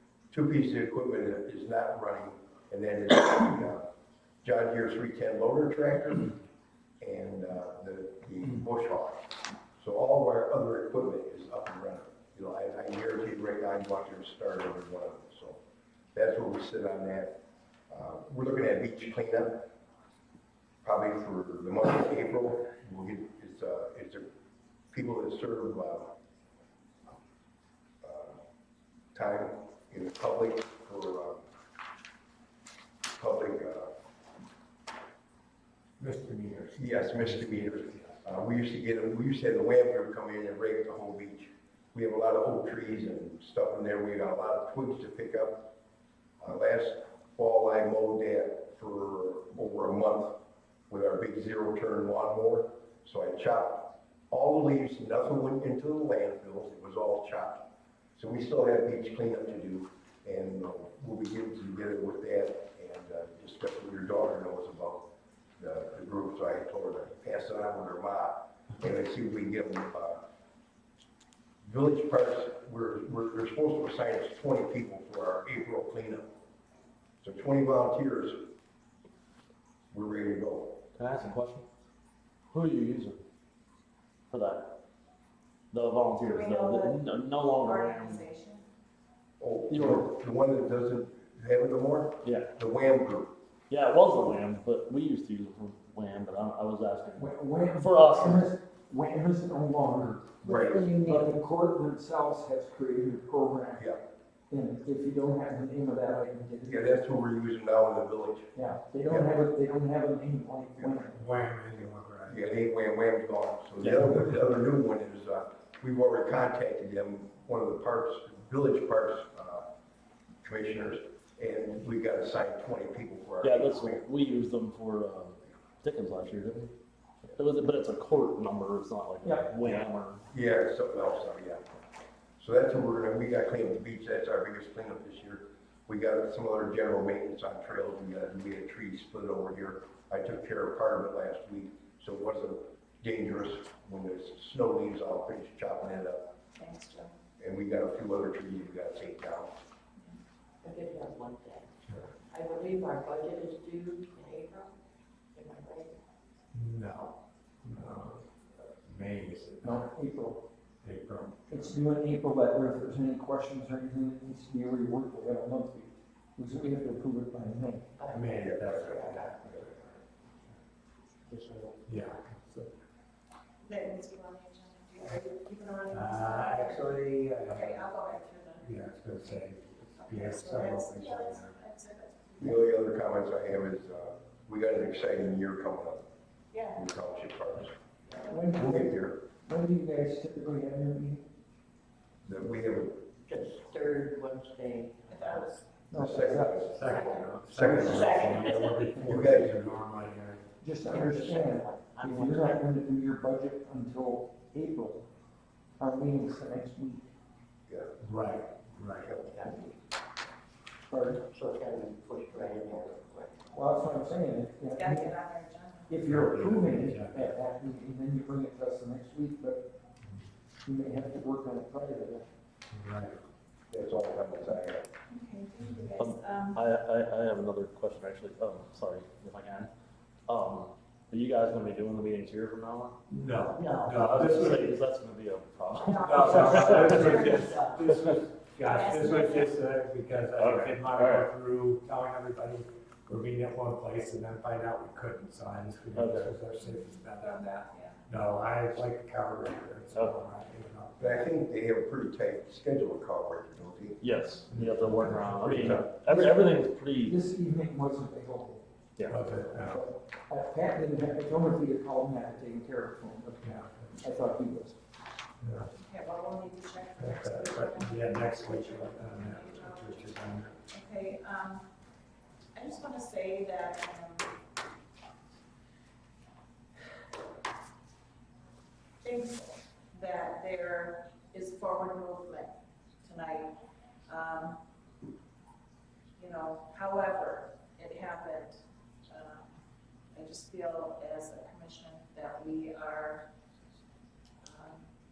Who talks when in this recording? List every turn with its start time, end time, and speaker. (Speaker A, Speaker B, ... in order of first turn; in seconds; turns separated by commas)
Speaker A: 0.3-3.9, Speaker A: 4.4-6.3, Speaker A: 7.0-9.2, Speaker A: 9.8-15.6, Speaker A: 16.1-17.4, Speaker A: 17.9-19.7, Speaker A: 20.8-24.3, Speaker A: 24.9-26.1, Speaker A: 28.0-28.4, Speaker A: 29.1-31.4, Speaker A: 33.1-33.9, Speaker B: 36.0-38.2, Speaker A: 36.8-45.7, Speaker A: 46.4-50.4, Speaker A: 50.9-57.6, Speaker A: 58.1-70.2, Speaker A: 71.6-76.3, Speaker A: 77.2-78.5, Speaker A: 79.9-80.8, Speaker C: 80.9-81.6, Speaker C: 82.5-83.2, Speaker C: 84.3-84.8, Speaker C: 85.7-88.3, Speaker D: 86.2-88.7, Speaker A: 89.4-93.3, Speaker C: 89.7-90.0, Speaker C: 92.2-92.5, Speaker C: 93.7-98.5, Speaker E: 97.2-103.9, Speaker A: 100.4-100.9, Speaker F: 100.4-101.4, Speaker A: 103.8-104.0, Speaker E: 104.5-106.9, Speaker A: 106.6-108.5, Speaker E: 108.5-111.2, Speaker A: 110.8-111.1, Speaker B: 111.1-112.5, Speaker A: 112.3-119.7, Speaker C: 113.8-114.1, Speaker A: 120.4-124.0, Speaker C: 123.4-126.7, Speaker C: 127.3-130.3, Speaker E: 129.2-129.5, Speaker A: 130.3-131.7, Speaker A: 132.4-146.3, Speaker D: 146.6-147.1, Speaker A: 147.4-149.5, Speaker F: 150.6-151.7, Speaker F: 152.3-154.7, Speaker F: 155.3-156.0, Speaker B: 156.5-159.8, Speaker E: 159.6-160.4, Speaker B: 160.8-161.7, Speaker E: 161.5-167.9, Speaker F: 168.0-169.3, Speaker B: 168.1-169.9, Speaker A: 168.3-169.7, Speaker F: 171.3-171.8, Speaker B: 171.8-172.7, Speaker D: 173.6-178.7, Speaker B: 175.9-177.9, Speaker B: 178.6-181.6, Speaker D: 179.9-182.7, Speaker A: 182.4-186.0, Speaker D: 186.5-186.8, Speaker A: 186.8-187.8, Speaker D: 188.1-188.4, Speaker E: 188.3-191.2, Speaker A: 188.5-189.2, Speaker A: 192.2-193.1, Speaker F: 193.2-195.6, Speaker D: 195.1-195.6, Speaker E: 195.9-196.7, Speaker A: 195.9-196.8, Speaker F: 196.3-199.0, Speaker B: 196.7-200.5, Speaker D: 196.8-197.3, Speaker A: 197.5-198.4, Speaker A: 199.0-199.8, Speaker E: 200.6-205.1, Speaker F: 200.8-202.6, Speaker E: 205.8-207.1, Speaker A: 207.7-208.0, Speaker B: 208.0-209.1, Speaker A: 209.0-209.6, Speaker E: 210.9-211.2, Speaker F: 211.3-213.4, Speaker E: 213.5-215.2, Speaker D: 214.7-216.0, Speaker E: 215.9-219.7, Speaker B: 216.1-217.3, Speaker E: 220.6-222.3, Speaker B: 222.7-223.2, Speaker A: 223.7-224.9, Speaker D: 225.1-226.6, Speaker C: 226.0-229.7, Speaker C: 230.3-233.0, Speaker B: 233.1-234.7, Speaker F: 233.5-234.7, Speaker C: 234.1-238.2, Speaker D: 235.8-237.7, Speaker B: 236.0-247.5, Speaker F: 236.1-236.4, Speaker F: 237.4-237.8, Speaker D: 238.6-239.6, Speaker C: 240.3-241.3, Speaker C: 245.9-246.3, Speaker D: 246.6-248.0, Speaker B: 248.1-251.3, Speaker A: 251.0-254.0, Speaker C: 254.0-257.2, Speaker B: 254.5-255.9, Speaker E: 256.0-258.6, Speaker B: 259.1-259.8, Speaker E: 259.6-264.8, Speaker B: 263.4-263.9, Speaker B: 265.4-265.7, Speaker D: 265.7-271.7, Speaker B: 267.0-270.6, Speaker D: 272.5-274.3, Speaker D: 279.0-283.5, Speaker D: 284.1-284.6, Speaker D: 286.2-289.6, Speaker D: 290.1-293.3, Speaker D: 294.4-294.9